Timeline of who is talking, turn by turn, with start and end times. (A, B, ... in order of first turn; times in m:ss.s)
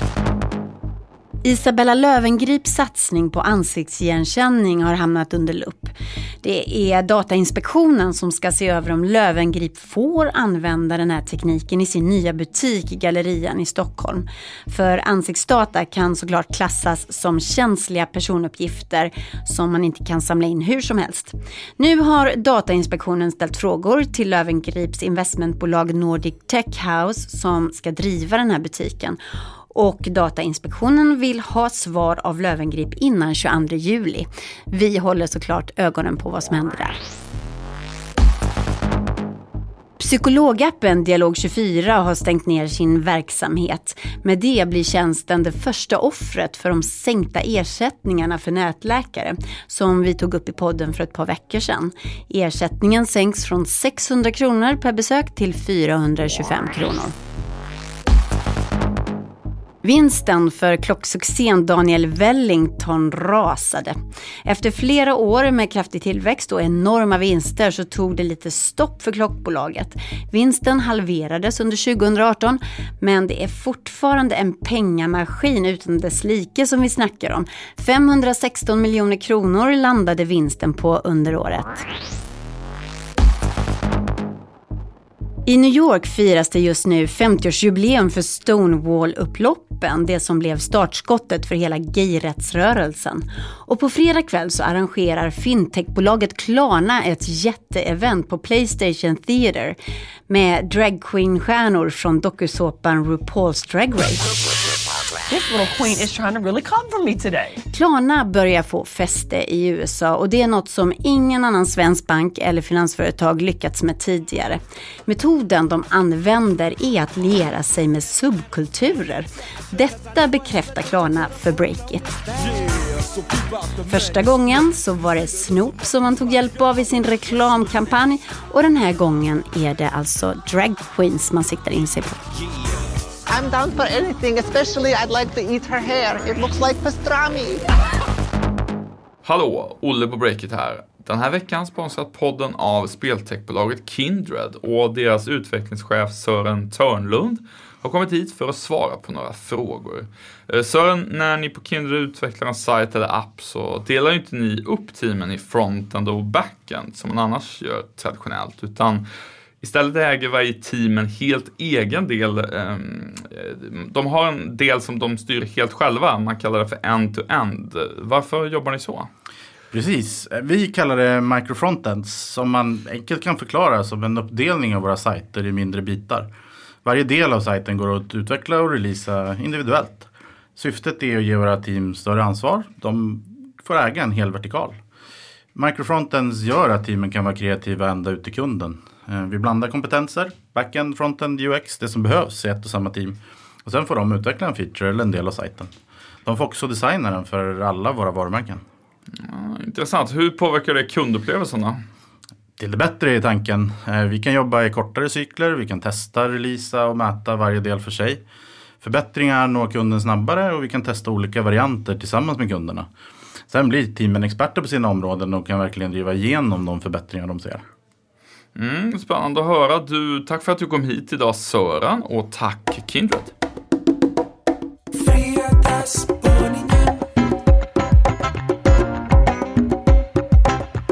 0:01.4-0:29.2 A
0:29.7-0:37.0 A
0:40.0-0:57.1 A
0:59.8-1:21.8 A
1:25.5-1:39.8 A
1:40.3-1:44.3 A
1:45.3-1:47.6 B
1:47.7-2:02.1 A
2:03.8-2:12.3 A
2:13.3-2:17.7 C
2:19.2-2:39.0 D
2:39.6-2:49.1 D
2:49.7-2:56.3 E
2:56.8-3:04.8 E
3:05.6-3:15.7 E
3:16.3-3:18.6 E
3:19.3-3:21.8 D
3:22.6-3:28.2 E
3:28.8-3:32.9 E
3:33.5-3:37.6 E
3:38.6-3:43.3 D